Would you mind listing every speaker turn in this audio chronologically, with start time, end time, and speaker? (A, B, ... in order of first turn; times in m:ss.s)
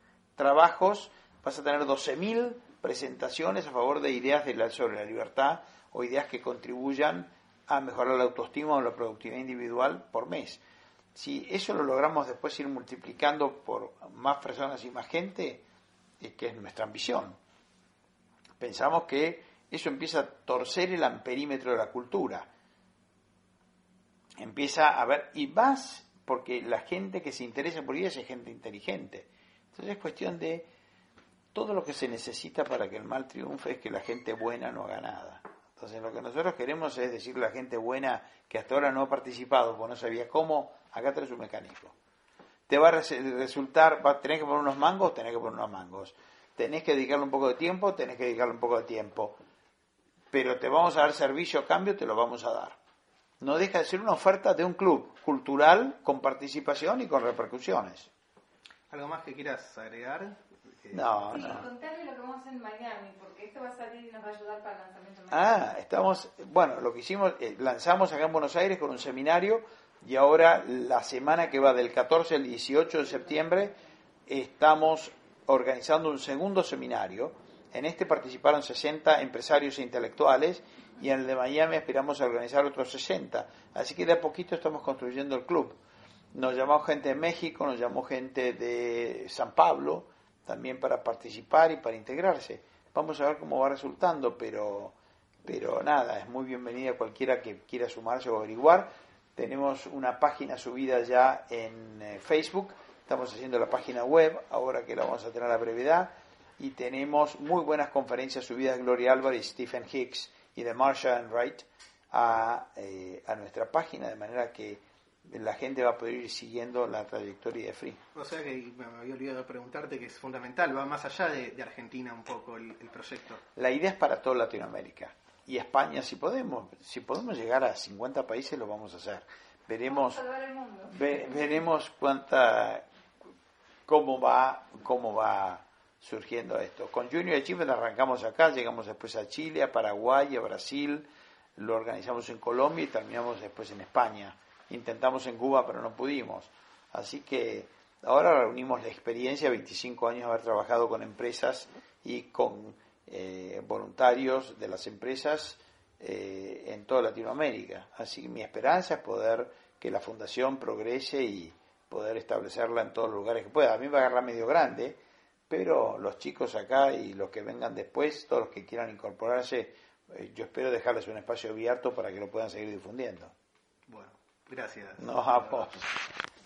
0:00.4-0:10.6 A
0:11.1-0:15.6 A
0:16.2-0:17.4 A
0:18.6-0:22.5 A
0:24.4-0:30.7 A
0:31.5-0:41.9 A
0:42.7-0:49.4 A
0:50.3-0:52.8 A
0:53.4-0:58.1 A
0:58.9-1:01.6 B
1:00.9-1:01.6 A
1:01.3-1:05.6 C
1:05.3-1:25.8 A
1:26.3-1:58.0 A
1:58.2-2:03.4 B
2:03.6-2:10.2 A
2:09.9-2:11.3 C
2:10.9-2:12.8 A
2:13.9-2:45.0 A
2:45.5-2:53.3 A
2:53.9-2:55.7 B
2:55.0-2:55.9 A